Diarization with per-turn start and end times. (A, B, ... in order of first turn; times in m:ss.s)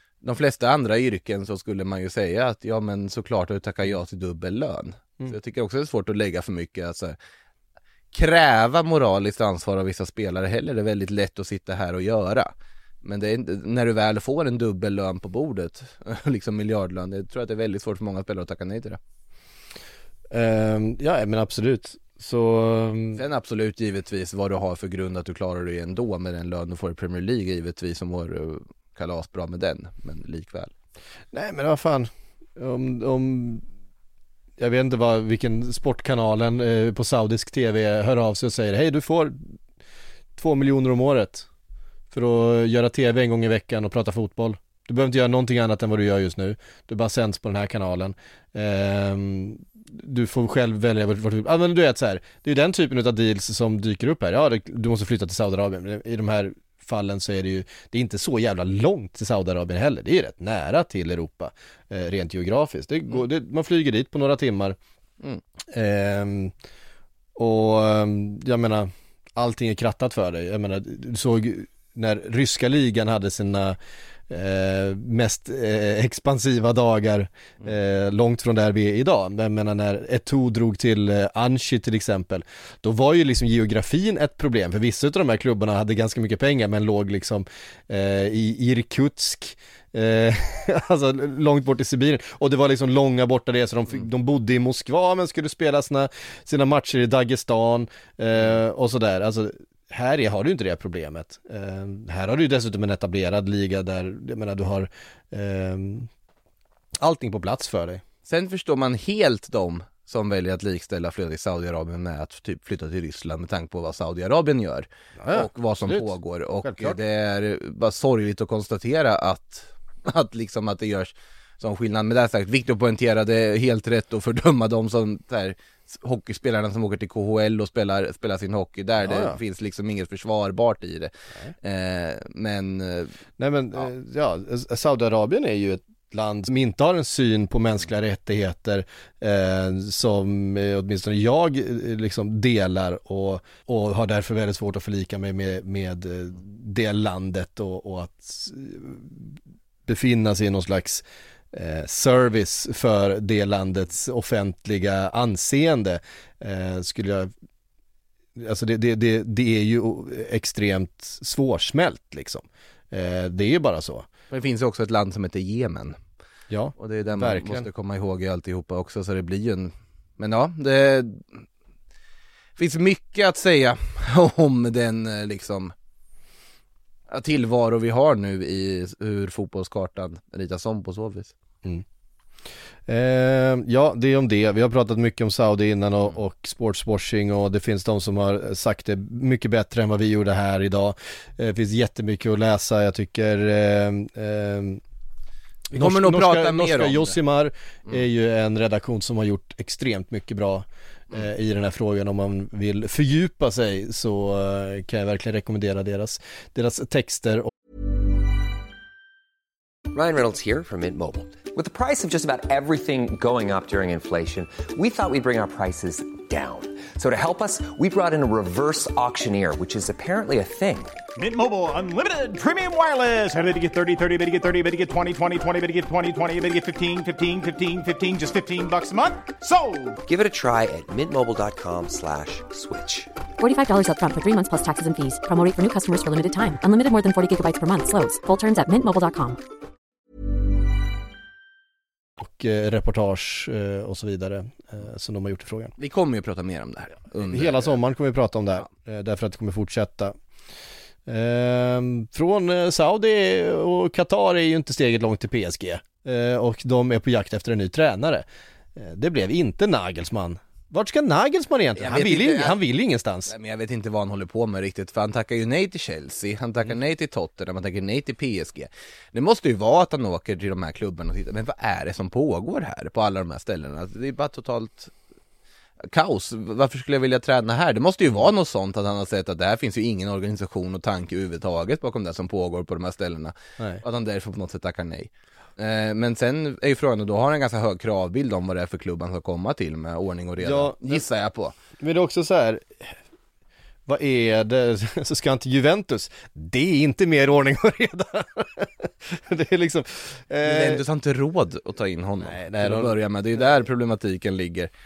0:00.2-0:07.2 A
0:08.1-0:12.5 A
0:13.0-0:19.0 A
0:20.3-0:23.2 B
0:23.2-0:30.7 A
0:31.3-0:33.6 B
0:34.6-0:39.5 B
0:40.4-0:41.4 B
0:42.1-1:04.8 B
1:05.7-1:06.5 B
1:07.4-1:13.8 B
1:14.3-1:46.1 B
1:47.0-1:48.0 B
1:48.3-2:13.1 A
1:55.2-1:57.0 B
2:09.0-2:09.4 B
2:13.4-2:29.4 B
2:29.9-2:37.3 B
2:38.4-2:44.1 B
2:44.3-2:46.0 A
2:46.5-2:47.7 B
2:46.8-2:51.4 A
2:52.6-2:55.7 A
2:57.1-3:01.3 A
3:02.9-3:14.8 B
3:15.7-3:27.5 B
3:15.8-3:17.2 A
3:29.9-3:41.0 C
3:41.2-3:50.0 D
3:50.0-3:53.2 C
3:53.4-3:59.4 E
4:02.2-4:05.7 B
4:05.8-4:07.8 A
4:07.1-4:10.1 B
4:11.0-4:23.3 B
4:21.8-4:22.6 A
4:23.3-4:34.9 A
4:35.8-4:51.6 A
4:50.4-4:51.0 B
4:51.8-4:53.0 B
4:53.9-5:00.8 B
5:00.4-5:04.7 A
5:02.2-5:03.6 B